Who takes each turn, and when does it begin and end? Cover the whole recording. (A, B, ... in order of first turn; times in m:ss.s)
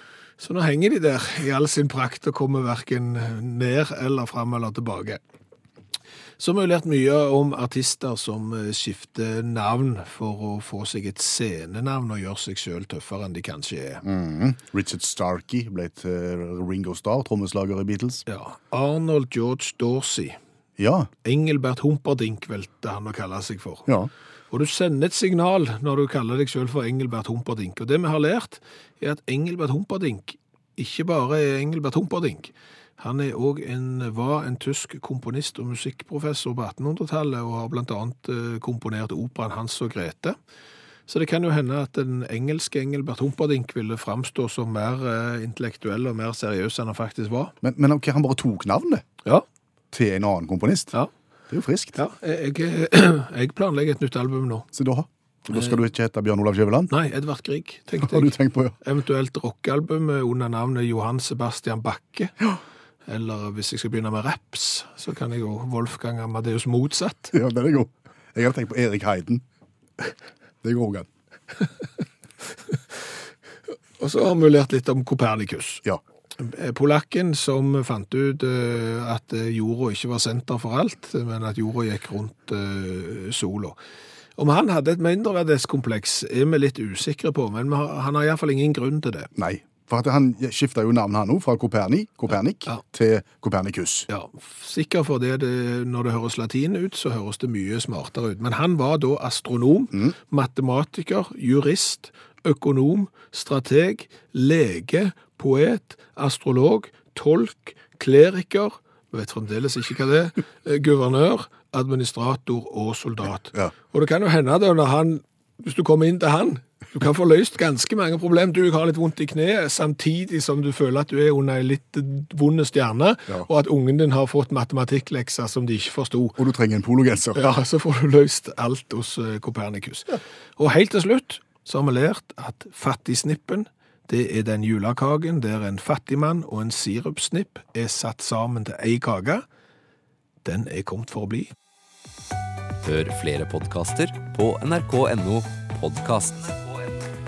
0:00.4-0:05.2 A
0:06.4-0:14.0 A
0:14.0-0:18.2 B
0:18.2-0:20.4 A
0:20.8-0:21.1 B
0:21.2-0:23.9 A
0:24.5-0:40.4 A
0:41.1-0:47.5 A
0:47.6-0:49.0 B
0:49.9-0:50.9 B
0:51.5-0:52.0 B
0:51.9-0:54.7 A
0:54.7-0:56.9 B
0:56.9-1:02.4 A
0:58.0-0:58.8 B
1:03.1-1:07.3 A
1:07.3-1:09.4 B
1:10.6-1:11.1 B
1:14.0-1:15.8 A
1:16.4-1:23.8 A
1:24.4-1:29.3 A
1:29.4-1:34.1 B
1:34.1-2:06.4 A
2:06.4-2:07.4 B
2:07.3-2:19.4 A
2:20.4-2:21.5 A
2:22.8-2:26.9 C